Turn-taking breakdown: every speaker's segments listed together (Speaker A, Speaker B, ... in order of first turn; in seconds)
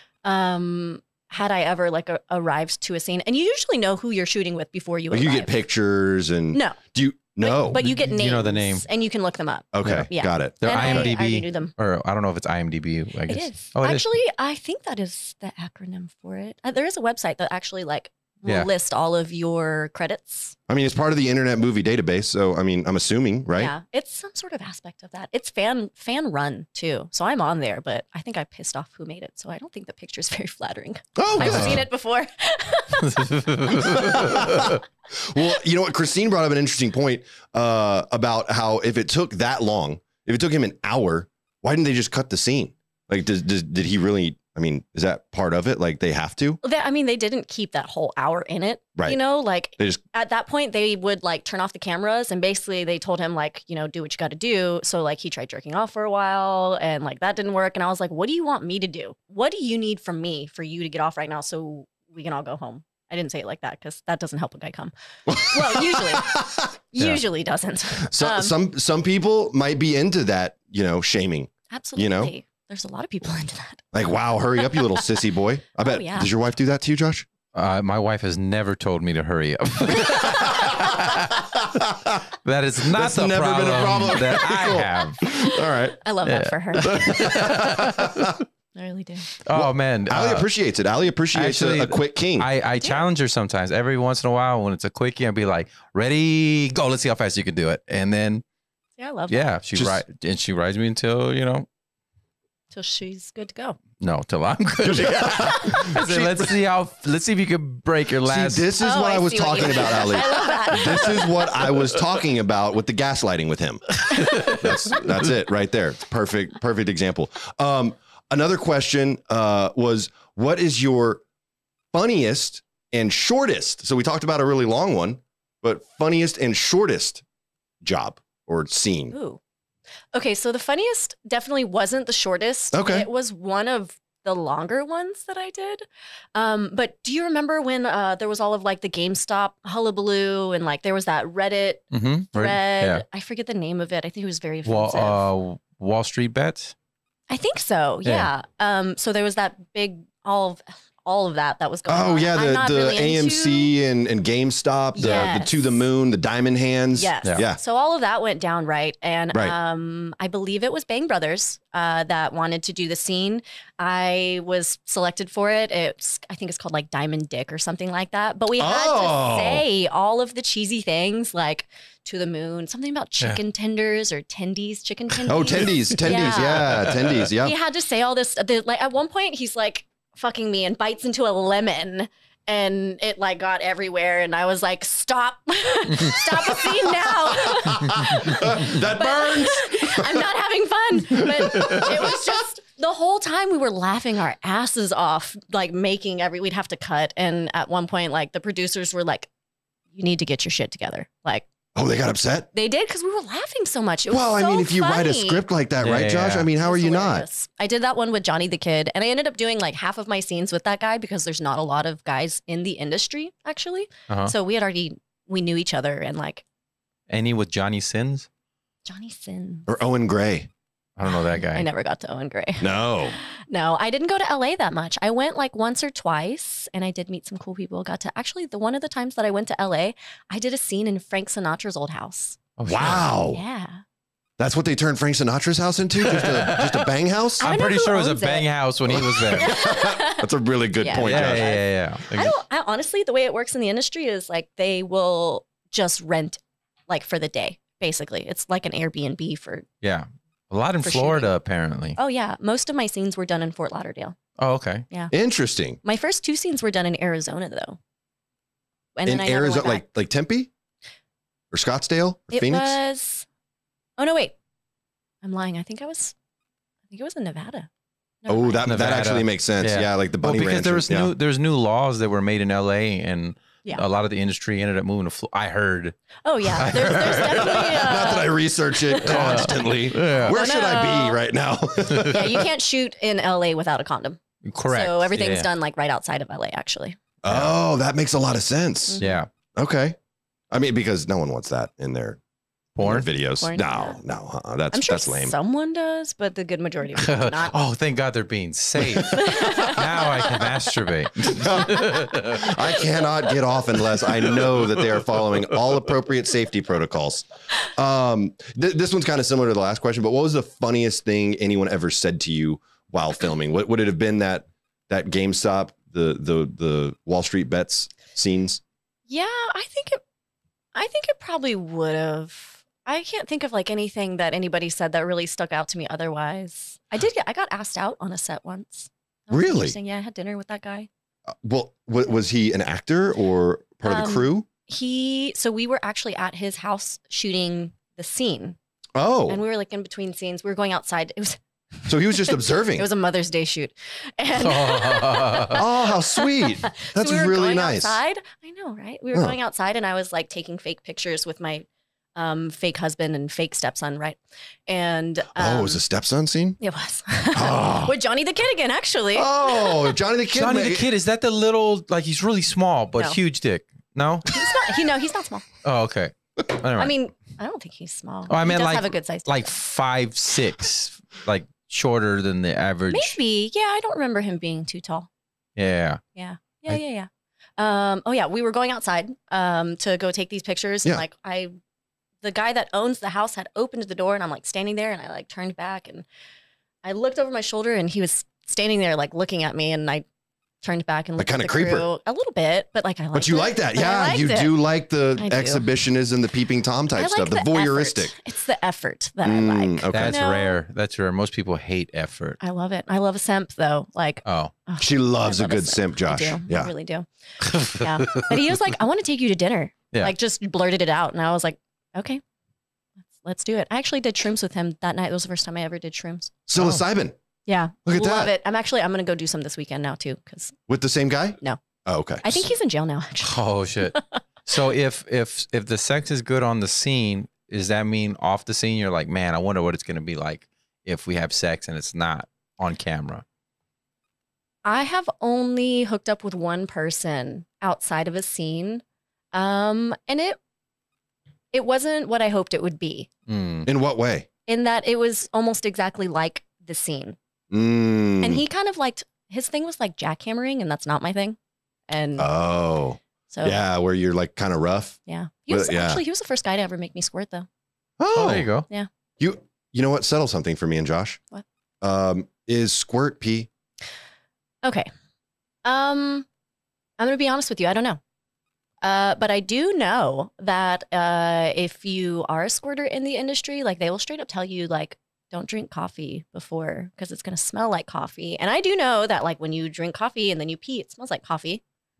Speaker A: 0.2-5.5, 6.5-6.8, 7.4-11.7, 13.3-20.6, 23.6-34.7, 46.6-66.4, 66.9-68.5, 71.7-73.8, 75.8-76.3, 85.4-87.3, 88.7-89.3, 99.0-99.5, 102.7-103.8, 108.8-111.4, 129.1-129.4, 130.1-145.3, 147.3-153.7, 154.9-155.8, 156.9-199.3, 199.9-201.4, 202.5-205.4, 206.6-216.4, 218.8-219.7, 221.1-232.4, 233.3-233.8, 237.4-238.5, 239.3-240.3, 240.8-249.7, 250.8-251.3, 251.9-254.2, 255.8-257.8, 258.9-259.8, 262.3-263.3, 264.0-264.3, 265.2-266.1, 266.9-267.7, 268.2-268.7, 276.2-281.2, 282.0-287.0, 288.9-289.1, 293.4-294.0, 294.7-297.6, 299.0-300.4, 319.1-320.0, 320.7-330.9, 333.8-338.6, 339.3-355.8, 356.6-359.9, 364.3-365.4, 366.8-369.5, 372.9-375.1, 376.1-381.5, 382.2-386.0, 386.8-390.0, 390.6-394.6, 395.1-395.7, 396.9-400.6, 402.4-412.2, 413.1-416.3, 417.4-420.5, 422.2-424.2, 434.6-440.4, 441.5-443.1, 444.5-447.2, 448.2-451.4, 451.9-452.3, 453.3-453.6, 455.1-457.5, 464.6-464.9, 465.6-466.2, 467.0-468.0, 468.8-481.6
Speaker B: 5.1-7.9, 9.7-11.1, 20.7-23.7, 31.1-31.8, 33.7-46.6, 65.3-66.7, 68.1-72.3, 73.9-77.2, 80.0-82.2, 82.9-86.0, 86.8-88.4, 89.5-92.5, 99.7-100.0, 104.8-106.5, 108.2-121.2, 121.9-127.2, 127.8-129.1, 132.7-133.1, 151.9-157.6, 168.6-169.6, 175.3-177.6, 186.6-190.3, 191.1-192.2, 201.7-202.5, 204.1-207.2, 219.7-220.5, 222.6-223.2, 232.7-233.4, 234.4-237.5, 238.9-241.5, 255.1-255.8, 259.1-260.5, 261.5-262.8, 268.3-271.1, 276.7-282.5, 287.2-289.0, 289.5-289.9, 290.5-292.2, 292.8-295.3, 298.9-299.6, 301.2-318.6, 329.3-329.8, 331.3-334.5, 338.9-339.4, 341.9-342.9, 345.5-348.0, 355.4-356.6, 357.3-357.9, 359.1-360.9, 391.2-391.9, 393.1-398.1, 399.2-400.2, 404.8-406.7, 416.5-417.1, 417.8-418.3, 420.7-422.5, 443.6-444.3, 447.5-448.4, 452.2-455.0, 455.5-456.0, 458.0-458.5, 459.2-461.2, 461.8-463.5
Speaker C: 7.8-8.8, 10.6-14.0, 31.4-31.8, 33.0-34.8, 77.5-81.4, 82.4-85.3, 86.2-88.3, 89.4-90.5, 91.3-98.4, 99.3-101.7, 104.0-108.7, 114.1-115.0, 141.9-143.0, 144.7-146.7, 175.8-177.2, 205.8-206.5, 217.1-218.3, 221.0-221.7, 232.6-233.1, 236.0-239.6, 240.9-242.3, 249.8-252.0, 254.4-254.8, 268.6-275.9, 276.5-278.0, 279.0-280.4, 281.9-282.2, 284.4-285.5, 287.3-287.5, 289.0-289.3, 292.8-293.1, 296.9-302.6, 344.3-345.6, 360.3-364.3, 365.6-366.9, 368.3-373.1, 375.6-376.0, 399.9-402.4, 404.2-404.5, 407.4-408.5, 416.6-416.8, 423.2-433.2, 443.3-443.7, 458.1-458.6